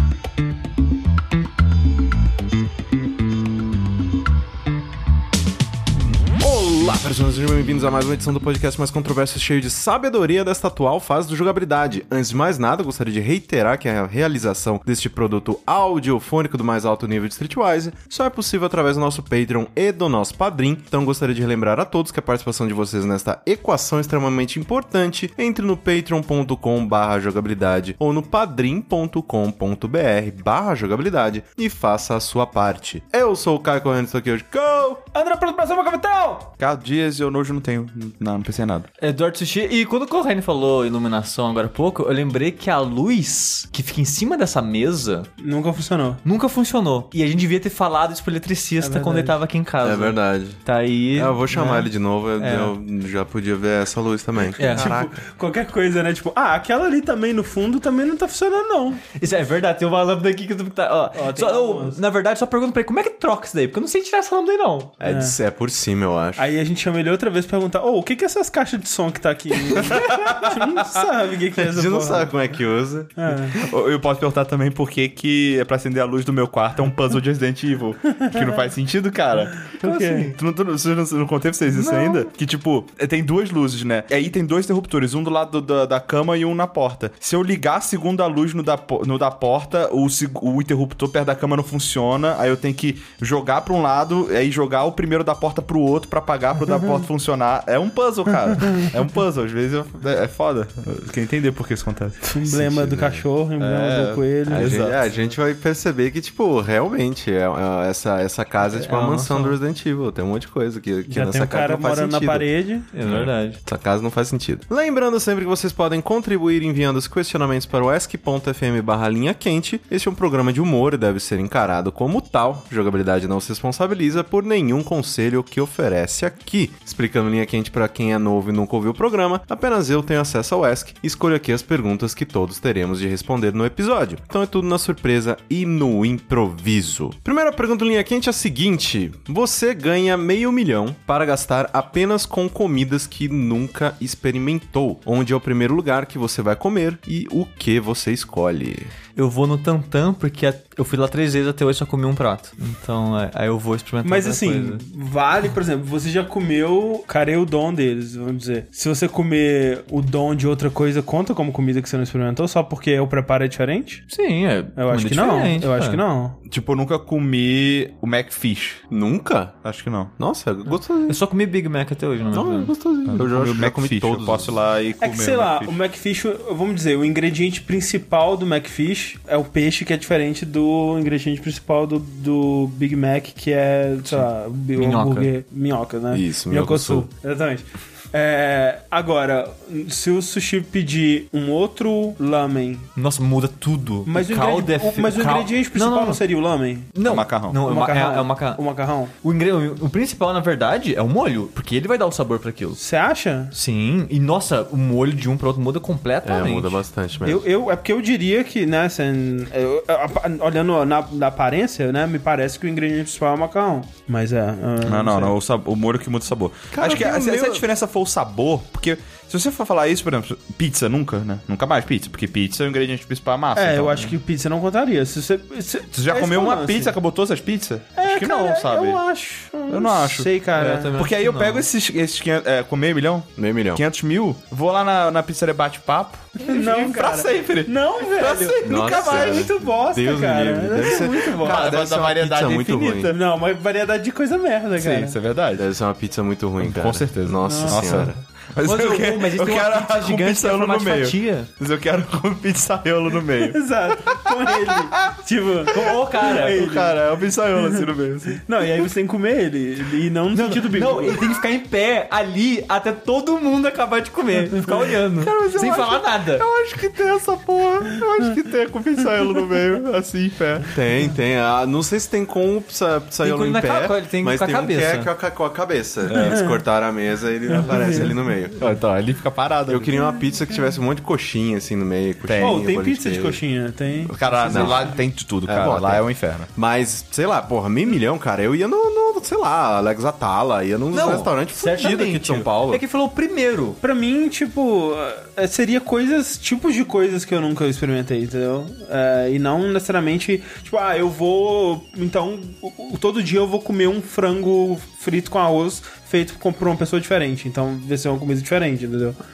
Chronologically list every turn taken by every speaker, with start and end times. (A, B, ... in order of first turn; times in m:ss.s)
0:06.3-0:35.0 A
0:35.1-0:36.5 B
0:36.6-0:38.9 C
0:39.0-0:45.3 D
0:45.4-0:46.2 B
0:46.2-0:52.7 D
0:48.8-0:49.3 B
0:49.8-0:50.6 A
0:51.2-0:55.2 A
0:54.6-0:54.9 D
0:54.6-0:59.1 B
0:59.1-1:05.0 D
1:01.2-1:02.0 B
1:05.0-1:06.4 A
1:05.0-1:05.4 B
1:06.4-1:12.3 B
1:10.1-1:10.7 C
1:11.6-1:13.2 A
1:13.2-1:13.6 B
1:13.5-1:19.7 C
1:19.8-1:20.3 B
1:19.8-1:20.3 D
1:20.3-1:42.2 C
1:21.8-1:22.2 D
1:42.2-1:44.9 B
1:42.4-1:43.2 A
1:43.6-1:45.0 C
1:44.5-1:52.5 A
1:48.6-1:49.6 D
1:51.1-1:52.9 B
1:52.9-1:53.6 D
1:53.0-2:28.9 A
2:29.2-2:34.8 D
2:34.0-2:44.0 B
2:44.1-2:46.0 D
2:44.8-2:46.4 B
2:46.5-2:48.8 C
2:48.9-2:49.5 A
2:49.6-2:50.1 C
2:50.2-2:51.2 A
2:51.1-2:52.7 D
2:52.3-2:54.5 A
2:53.1-2:55.8 C
2:55.0-3:12.9 B
3:04.8-3:05.3 D
3:06.1-3:07.1 A
3:13.0-3:16.2 D
3:14.1-3:16.9 B
3:16.9-3:18.6 D
3:17.0-3:17.6 C
3:17.6-3:19.1 B
3:19.2-3:22.8 D
3:22.8-3:23.5 B
3:23.5-3:26.8 D
3:26.2-3:27.4 A
3:27.2-3:35.4 B
3:34.8-3:44.1 C
3:36.7-3:37.6 A
3:43.6-3:47.0 B
3:45.9-3:49.0 C
3:48.0-3:50.9 B
3:49.7-3:50.3 C
3:50.6-3:51.6 D
3:51.0-3:59.5 C
3:53.4-3:53.8 A
3:56.4-4:01.8 B
3:58.6-4:03.1 A
4:01.4-4:03.2 C
4:03.1-4:05.2 B
4:04.8-4:05.6 C
4:05.6-4:08.1 A
4:06.6-4:14.8 C
4:07.4-4:08.1 B
4:08.6-4:11.5 D
4:13.4-4:17.0 B
4:15.7-4:16.7 D
4:16.5-4:18.8 C
4:17.6-4:21.3 B
4:20.3-4:26.4 D
4:25.2-4:30.7 C
4:30.7-4:38.8 A
4:33.2-4:35.1 D
4:36.1-4:36.4 C
4:36.1-4:36.6 B
4:37.5-4:38.1 B
4:38.6-4:40.0 C
4:39.7-4:43.4 A
4:42.2-4:42.6 C
4:42.4-4:45.0 B
4:44.1-4:46.5 C
4:44.4-4:44.9 A
4:45.4-4:46.0 A
4:46.5-4:52.8 A
4:50.9-4:53.8 D
4:53.8-5:09.2 B